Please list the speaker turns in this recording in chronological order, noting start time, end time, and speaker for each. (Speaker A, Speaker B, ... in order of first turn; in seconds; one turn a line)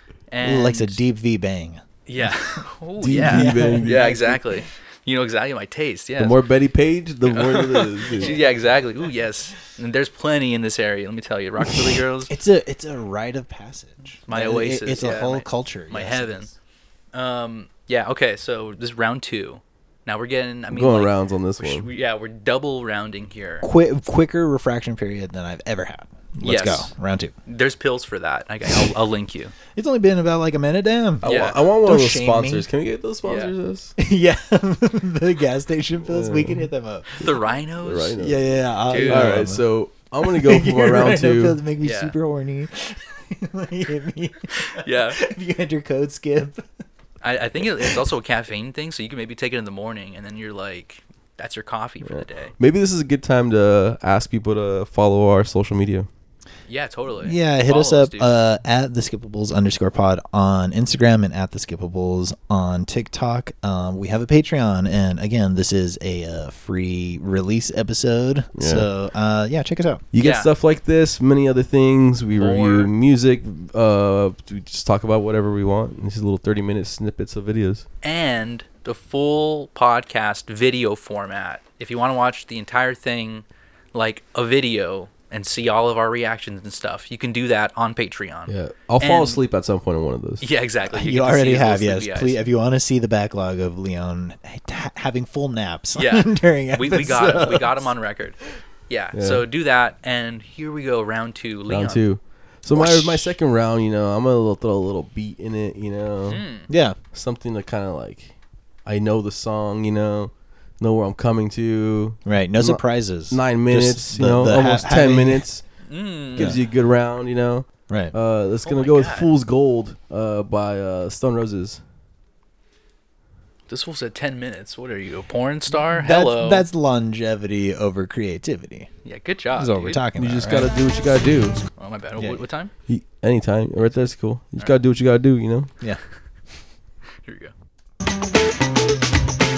Speaker A: 0.3-1.0
Speaker B: 0.4-2.6
Speaker A: 2.0-6.4
Speaker C: 3.0-4.2
Speaker B: 3.1-4.6
Speaker C: 6.2-8.4
Speaker A: 7.2-12.3
Speaker B: 12.3-16.5
Speaker A: 14.3-16.5
Speaker A: 17.1-23.6
Speaker C: 20.7-21.9
Speaker B: 23.6-27.3
Speaker A: 26.4-26.9
Speaker A: 27.4-29.5
Speaker B: 29.7-32.7
Speaker C: 31.2-33.9
Speaker A: 31.2-31.6
Speaker A: 33.2-33.5
Speaker B: 34.0-37.1
Speaker C: 36.1-36.7
Speaker A: 37.2-38.2
Speaker C: 37.8-38.4
Speaker B: 38.2-39.7
Speaker A: 38.9-39.4
Speaker C: 39.0-41.6
Speaker B: 40.2-46.7
Speaker A: 41.8-42.1
Speaker A: 44.5-45.2
Speaker A: 47.2-52.5
Speaker C: 52.0-56.1
Speaker A: 56.7-58.4
Speaker B: 57.2-70.0
Speaker C: 68.6-68.9
Speaker C: 70.1-77.8
Speaker A: 70.2-70.5
Speaker A: 72.3-72.9
Speaker A: 78.0-89.4
Speaker C: 88.5-90.4
Speaker A: 90.4-92.4
Speaker B: 90.9-97.9
Speaker A: 95.9-102.1
Speaker C: 99.1-99.4
Speaker C: 101.7-106.4
Speaker B: 102.7-103.3
Speaker A: 106.3-106.7
Speaker B: 106.7-107.0
Speaker C: 107.1-108.3
Speaker C: 108.8-115.6
Speaker B: 112.2-115.4
Speaker A: 115.8-116.5
Speaker C: 116.3-121.8
Speaker B: 117.9-118.1
Speaker A: 118.6-119.3
Speaker A: 123.7-126.7
Speaker B: 125.7-128.9
Speaker A: 129.0-130.0
Speaker B: 129.5-130.7
Speaker C: 130.2-131.6
Speaker A: 131.8-132.7
Speaker B: 132.2-132.4
Speaker C: 132.9-135.7
Speaker A: 137.2-137.5